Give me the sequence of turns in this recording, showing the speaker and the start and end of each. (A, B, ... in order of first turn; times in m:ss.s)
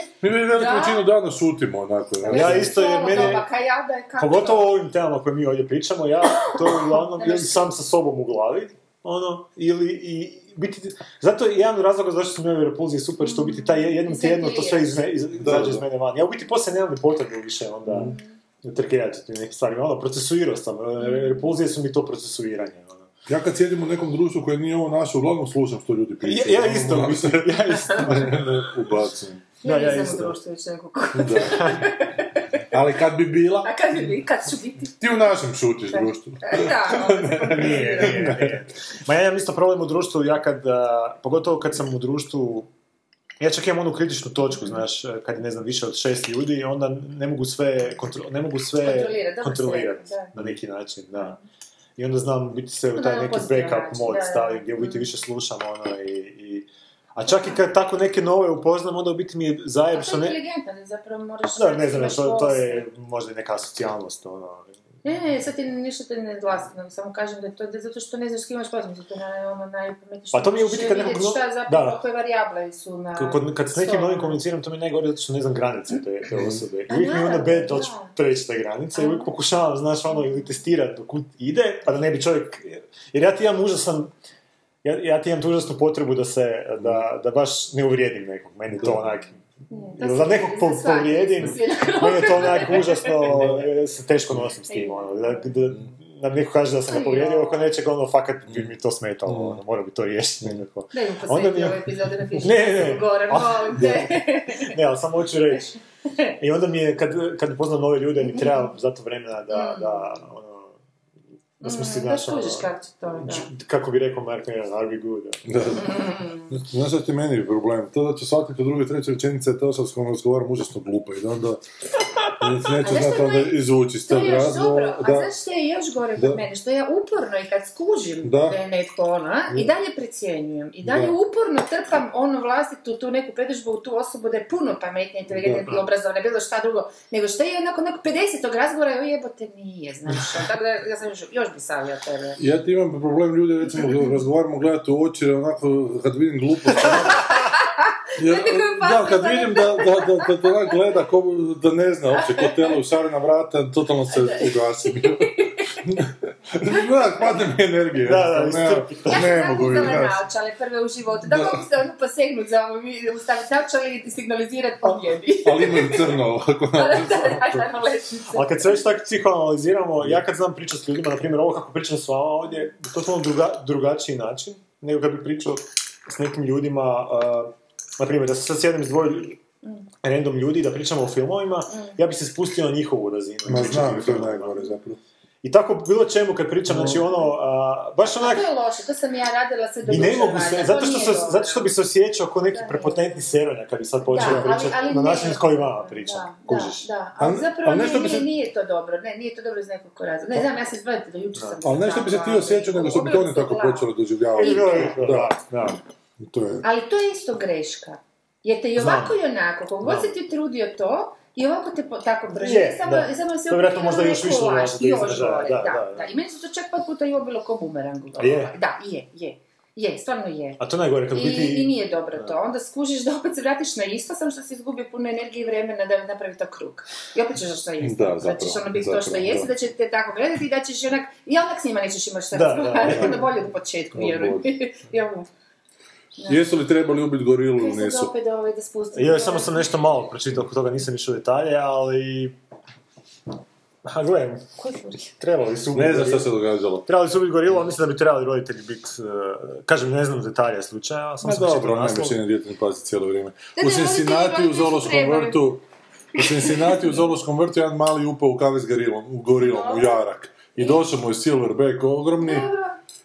0:00.2-0:03.4 A
0:00.5-0:01.1 B
0:02.2-0:03.5 C
0:02.3-0:04.7 B
0:04.2-0:23.1 C
0:06.4-0:07.7 B
0:13.2-0:15.0 B
0:15.4-0:15.9 A
0:17.9-0:18.1 A
0:21.0-0:21.4 B
0:23.3-0:29.5 A
0:26.2-0:28.6 C
0:29.6-0:32.5 B
0:29.6-0:30.4 C
0:31.1-0:31.8 A
0:31.5-0:31.8 C
0:32.7-0:33.8 A
0:33.6-0:35.0 B
0:35.0-0:38.6 A
0:35.9-0:38.3 B
0:37.3-0:42.7 C
0:43.4-0:51.4 C
0:48.8-0:50.3 B
0:52.0-1:00.4 C
0:53.0-0:55.1 B
0:57.2-0:57.6 B
0:59.9-1:02.9 B
1:01.5-1:04.9 C
1:05.0-1:14.4 B
1:10.3-1:12.0 C
1:13.2-1:24.1 C
1:16.4-1:16.6 A
1:16.9-1:18.1 B
1:19.0-1:19.3 B
1:24.8-1:29.4 C
1:29.7-1:33.3 B
1:30.0-1:45.8 C
1:34.7-1:35.5 B
1:36.9-1:37.7 B
1:39.3-1:39.6 A
1:40.9-1:44.7 B
1:46.4-1:50.8 C
1:49.5-1:50.0 B
1:51.6-1:55.8 C
1:51.6-1:53.5 B
1:55.5-1:56.0 A
1:55.8-1:56.5 B
1:56.5-2:01.6 A
2:02.4-2:05.3 A
2:02.8-2:22.4 B
2:06.2-2:06.4 A
2:08.2-2:08.6 A
2:10.8-2:11.2 A
2:15.3-2:15.7 A
2:22.4-2:27.2 A
2:27.2-2:30.5 B
2:28.2-2:40.2 A
2:34.1-2:35.8 B
2:38.0-2:39.7 C
2:39.1-2:46.2 B
2:41.3-2:41.6 A
2:45.4-2:47.6 A
2:46.8-2:48.8 B
2:48.3-2:59.4 C
3:00.0-3:04.6 C
3:01.7-3:02.0 B
3:03.5-3:05.0 A
3:05.4-3:08.5 C
3:06.8-3:07.2 B
3:08.2-3:11.7 B
3:09.9-3:16.9 C
3:09.9-3:10.4 A
3:12.5-3:13.1 B
3:14.1-3:25.0 B
3:14.2-3:14.6 A
3:17.2-3:18.3 A
3:21.6-3:25.4 A
3:24.4-3:25.8 C
3:26.2-3:26.7 A
3:26.6-3:40.6 B
3:28.8-3:29.2 C
3:29.8-3:30.1 C
3:32.4-3:36.2 C
3:38.2-3:38.6 C
3:40.6-3:42.4 C
3:41.1-3:55.3 B
3:47.8-3:49.5 A
3:52.3-3:53.3 C
3:52.9-3:53.2 A
3:53.9-3:54.5 A
3:56.2-3:56.5 B
3:56.3-3:58.1 A
3:57.6-3:59.8 B
3:58.9-4:02.4 C
4:03.8-4:04.5 C
4:04.6-4:05.1 B
4:05.1-4:12.2 C
4:05.7-4:06.8 A
4:11.2-4:15.6 A
4:13.6-4:15.4 B
4:16.2-4:22.5 A
4:16.2-4:16.9 B
4:19.4-4:20.0 B
4:20.6-4:20.8 B
4:22.2-4:22.8 B